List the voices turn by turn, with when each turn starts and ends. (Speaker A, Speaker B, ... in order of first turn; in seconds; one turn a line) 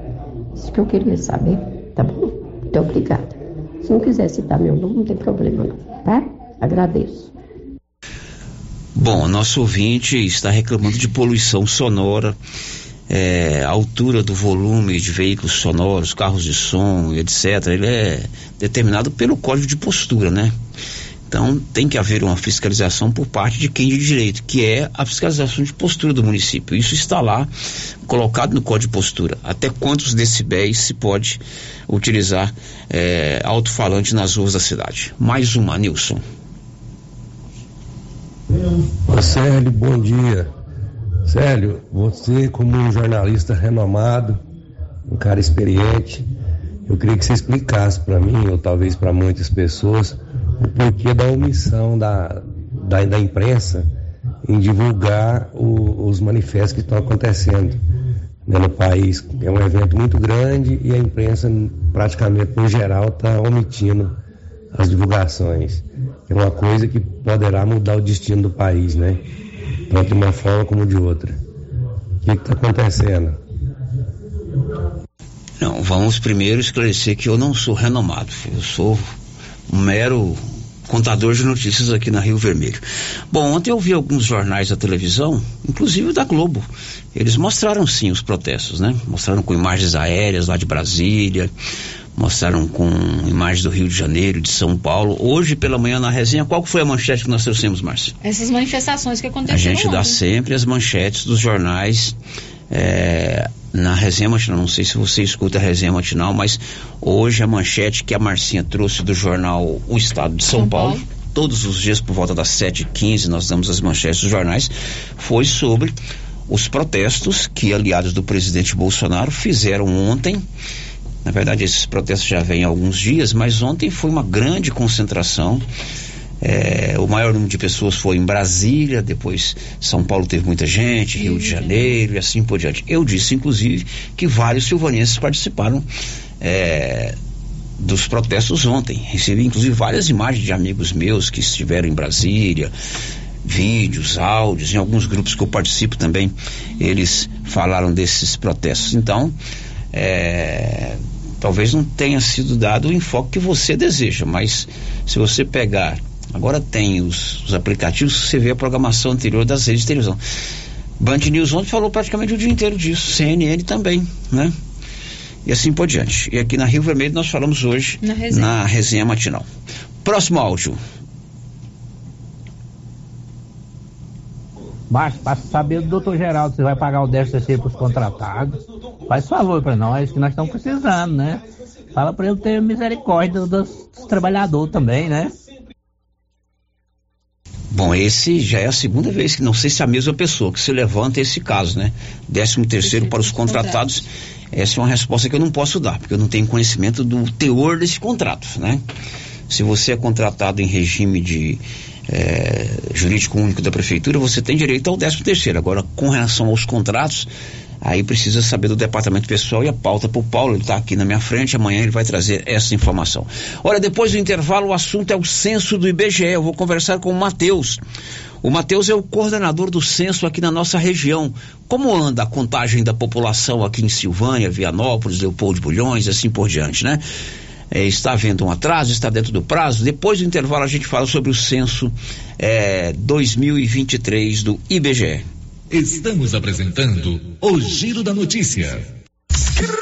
Speaker A: 0.5-7.3
Speaker B: 8.9-12.4
Speaker B: 13.1-20.5
Speaker B: 21.3-27.5
Speaker B: 28.1-36.2
Speaker C: 39.0-40.5
Speaker C: 41.2-44.4
Speaker C: 45.1-46.2
Speaker C: 46.9-53.9
Speaker C: 54.4-57.8
Speaker C: 58.5-64.2
Speaker C: 64.7-69.2
Speaker C: 69.9-71.4
Speaker C: 72.2-73.4
Speaker B: 75.6-79.1
Speaker B: 79.7-91.5
Speaker B: 92.2-98.1
Speaker D: 98.2-100.2
Speaker B: 99.5-102.2
Speaker B: 102.7-116.0
Speaker D: 110.5-111.0
Speaker B: 116.5-120.4
Speaker B: 121.2-125.6
Speaker B: 126.4-135.8
Speaker D: 131.1-132.0
Speaker B: 136.4-137.1
Speaker B: 137.8-142.7
Speaker B: 143.4-149.3
Speaker B: 149.9-160.2
Speaker B: 161.0-164.5
Speaker B: 165.4-169.4
Speaker D: 168.0-168.6
Speaker B: 170.0-170.8
Speaker E: 174.9-178.6
Speaker E: 179.1-181.4
Speaker E: 181.9-185.3
Speaker B: 187.7-198.8
Speaker D: 192.8-193.9
Speaker B: 199.5-207.3
Speaker B: 207.8-217.8
Speaker B: 218.4-227.0
Speaker B: 227.7-235.2
Speaker F: 235.7-238.9